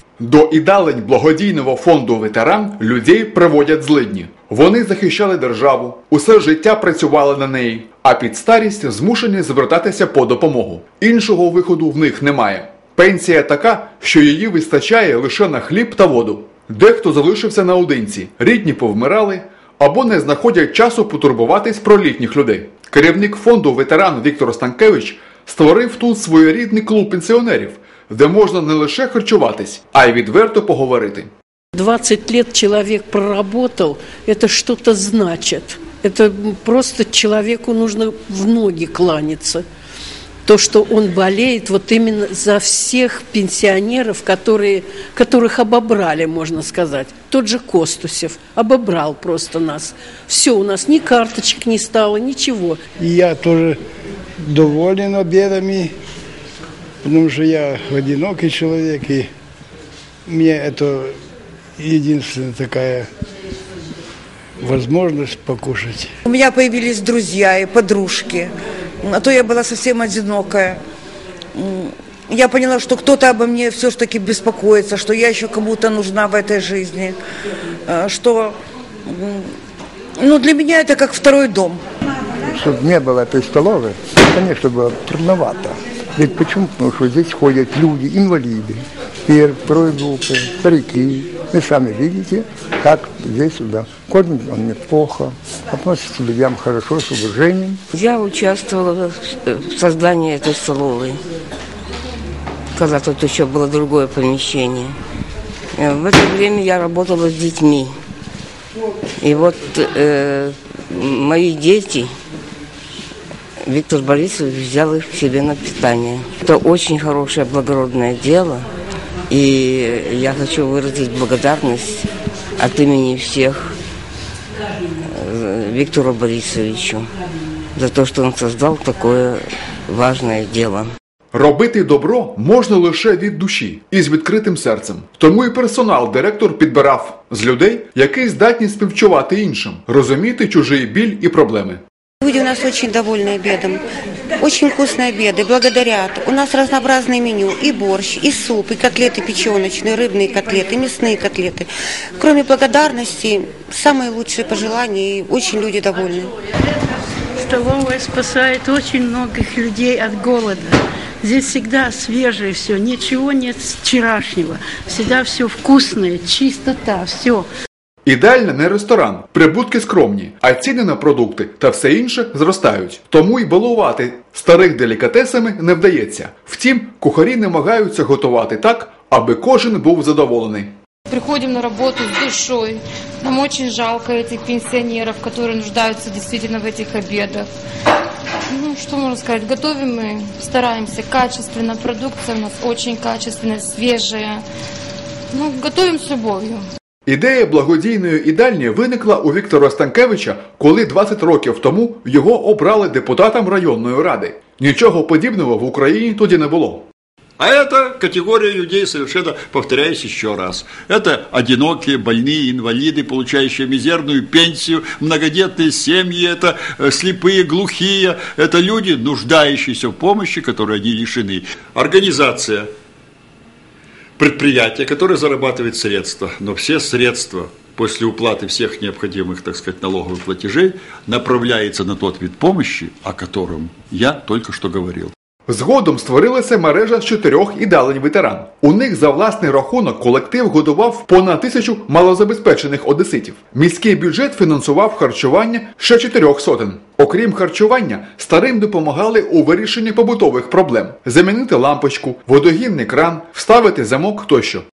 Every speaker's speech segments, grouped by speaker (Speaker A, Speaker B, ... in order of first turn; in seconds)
Speaker A: 0.2-31.3, 131.3-141.8, 168.1-180.7, 197.1-206.9, 235.5-254.7
Speaker B: 31.7-39.6, 40.5-52.8
Speaker C: 53.0-53.8, 54.4-55.9, 57.0-59.3, 60.3-61.1, 61.8-63.1, 64.6-66.1
Speaker D: 66.3-70.8, 71.6-77.2, 77.9-78.5, 79.1-79.5, 80.2-81.8
Speaker E: 82.5-97.8
Speaker F: 97.9-101.2, 102.8-104.9, 105.8-107.9, 109.2-112.1, 113.6-118.7, 119.3-122.0, 122.6-123.7, 125.1-127.1, 127.8-130.9
Speaker G: 142.2-143.8, 144.4-156.3
Speaker H: 157.4-167.5
Speaker I: 181.1-187.5, 188.5-194.4, 195.3-196.7
Speaker J: 207.4-222.7, 224.2-235.1